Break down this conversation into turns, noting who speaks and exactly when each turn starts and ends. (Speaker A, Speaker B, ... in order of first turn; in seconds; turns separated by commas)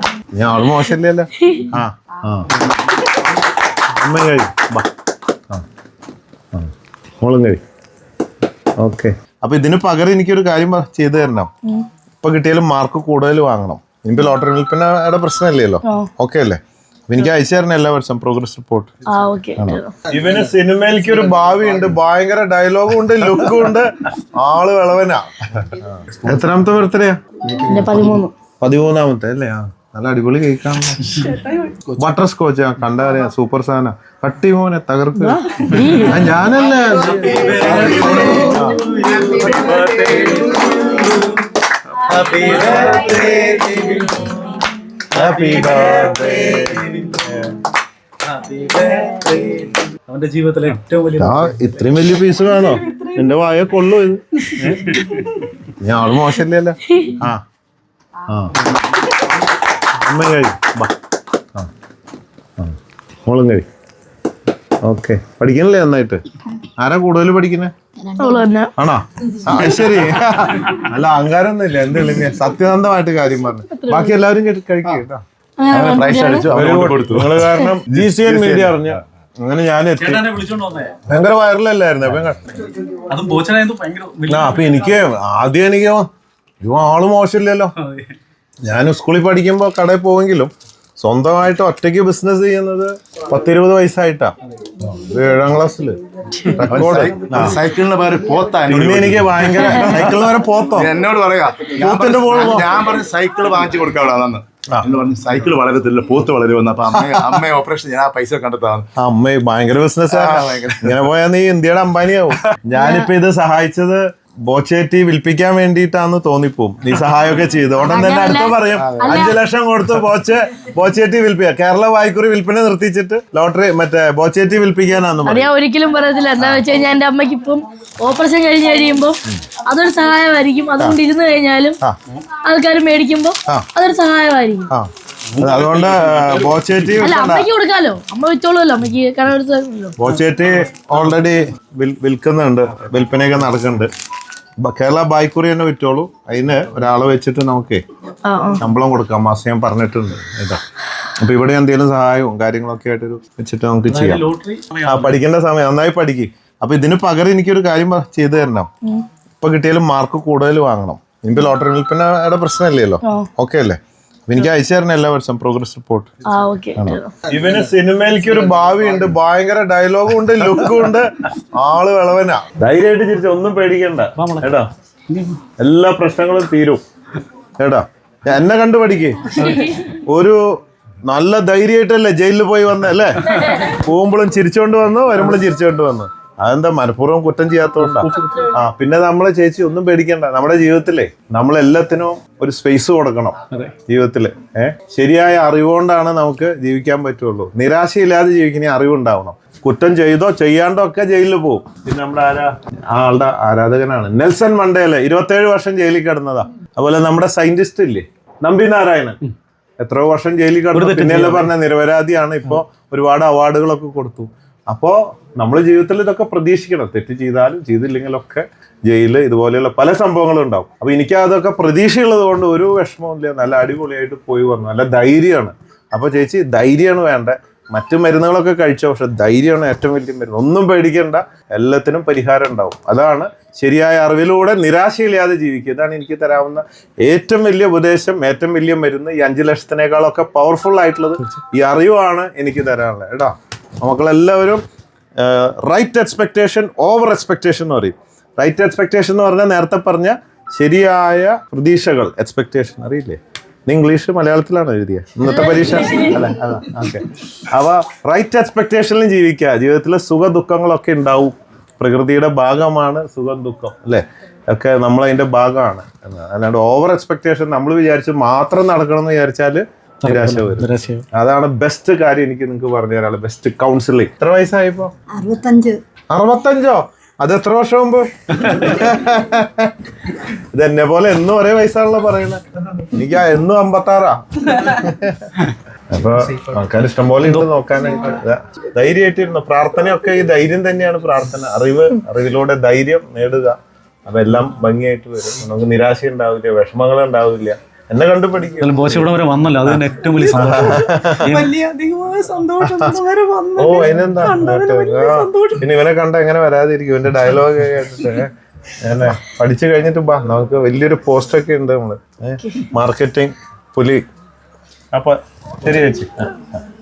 Speaker A: 0.3-2.5, Speaker B: 1.4-1.7, Speaker A: 3.9-4.9, Speaker A: 6.5-7.6, Speaker A: 8.8-11.5, Speaker A: 12.2-18.9, Speaker B: 15.8-16.1, Speaker B: 19.1-19.9, Speaker A: 19.6-27.7, Speaker B: 27.6-28.3, Speaker A: 28.6-31.2, Speaker A: 31.9-35.4, Speaker B: 35.2-36.1, Speaker A: 36.0-38.9, Speaker C: 37.3-40.6, Speaker D: 38.9-41.2, Speaker C: 42.1-43.1, Speaker D: 42.1-44.3, Speaker A: 45.1-47.6, Speaker C: 48.3-51.4, Speaker A: 51.2-54.9, Speaker C: 54.6-55.4, Speaker A: 55.8-57.4, Speaker A: 58.3-58.6, Speaker A: 60.0-60.9, Speaker A: 62.6-63.6, Speaker A: 64.8-67.7, Speaker E: 68.1-68.4, Speaker B: 68.2-68.7, Speaker A: 68.8-75.2, Speaker B: 73.7-74.2, Speaker B: 75.6-76.5, Speaker D: 75.7-79.0, Speaker A: 76.4-80.3, Speaker C: 80.0-81.0, Speaker A: 81.1-82.5, Speaker C: 82.9-84.6, Speaker A: 84.3-86.1, Speaker A: 86.6-87.7, Speaker C: 87.8-88.1, Speaker A: 88.7-97.6, Speaker D: 96.7-108.9, Speaker A: 98.7-100.9, Speaker A: 101.7-102.8, Speaker A: 109.0-125.5, Speaker D: 110.1-111.1, Speaker B: 117.9-119.4, Speaker D: 118.8-119.3, Speaker B: 125.2-131.8, Speaker A: 126.4-126.7, Speaker B: 132.3-134.7, Speaker A: 134.7-137.5, Speaker C: 135.4-136.5, Speaker B: 137.0-140.0, Speaker A: 140.0-143.9, Speaker A: 144.6-147.8, Speaker B: 148.2-148.6, Speaker A: 148.6-150.6, Speaker A: 151.2-154.2, Speaker C: 153.9-155.1, Speaker A: 154.8-158.7, Speaker A: 159.4-166.2, Speaker B: 163.0-163.3, Speaker B: 166.3-167.1, Speaker A: 166.8-174.7, Speaker C: 174.2-174.5, Speaker C: 175.1-175.4, Speaker A: 175.6-176.8, Speaker A: 177.6-180.4, Speaker A: 181.1-209.2, Speaker C: 187.9-188.4, Speaker A: 209.8-244.6, Speaker C: 210.7-211.5, Speaker A: 245.2-274.9, Speaker C: 270.1-271.1, Speaker E: 275.1-275.8, Speaker A: 276.1-279.7, Speaker A: 280.5-285.3, Speaker A: 285.9-299.1, Speaker C: 298.6-301.6, Speaker A: 299.6-301.5, Speaker E: 301.5-305.6, Speaker A: 302.6-303.0, Speaker A: 303.6-314.0, Speaker A: 314.9-316.5